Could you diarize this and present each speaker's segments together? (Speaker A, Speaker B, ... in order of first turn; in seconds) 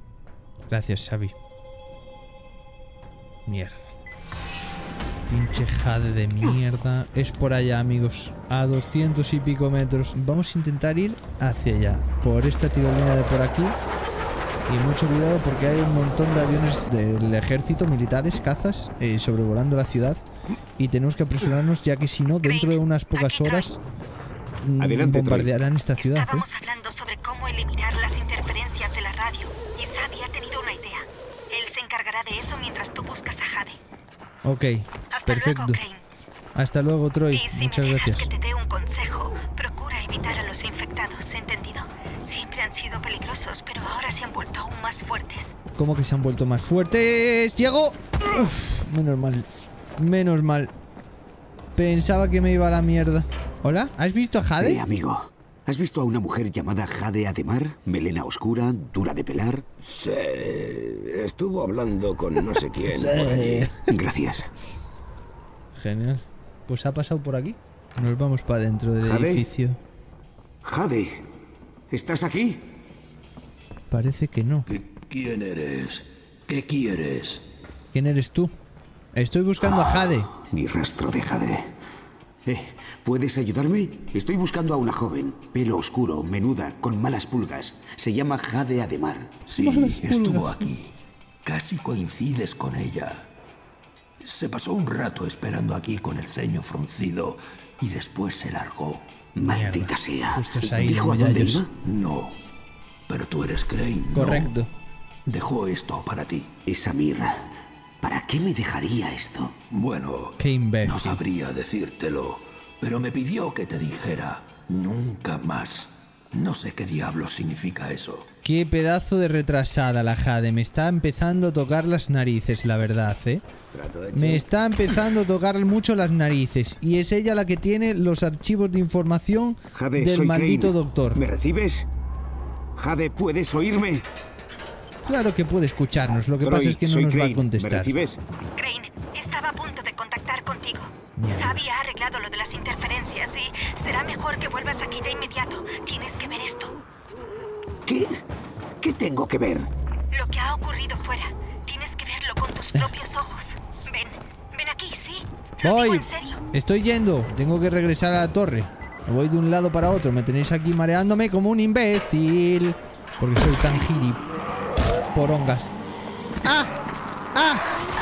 Speaker A: 0.7-1.4, 3.5-3.9, 5.3-13.8, 14.7-20.2, 20.8-23.8, 24.6-26.5, 34.5-35.8, 36.6-38.3, 45.8-49.5, 50.0-50.7, 51.8-54.8, 62.8-63.9, 65.8-69.8, 73.9-74.7, 77.9-78.5, 79.2-80.3, 89.5-90.7, 99.4-101.6, 104.1-104.7, 110.4-111.2, 118.4-123.4, 124.1-131.2, 135.1-137.9, 141.2-141.6, 155.6-164.2, 165.1-165.7, 166.4-166.7, 167.3-167.7
Speaker B: 22.4-23.7, 26.0-33.8, 35.1-36.0, 37.3-45.5, 138.6-146.8, 150.1-156.4
Speaker C: 24.8-25.5, 54.6-59.7, 63.3-64.5, 69.0-69.5, 70.6-71.3, 71.9-72.8, 79.8-81.7, 82.5-89.4, 99.4-101.7, 106.7-107.5, 108.0-109.5, 129.7-131.9, 132.8-134.1, 136.2-138.2, 147.8-148.2, 148.8-149.7
Speaker D: 59.8-63.6, 123.7-124.1
Speaker E: 74.7-77.4, 89.5-90.9, 91.5-93.3, 94.2-99.1, 101.5-102.4, 103.1-104.5, 105.3-106.5, 109.7-118.3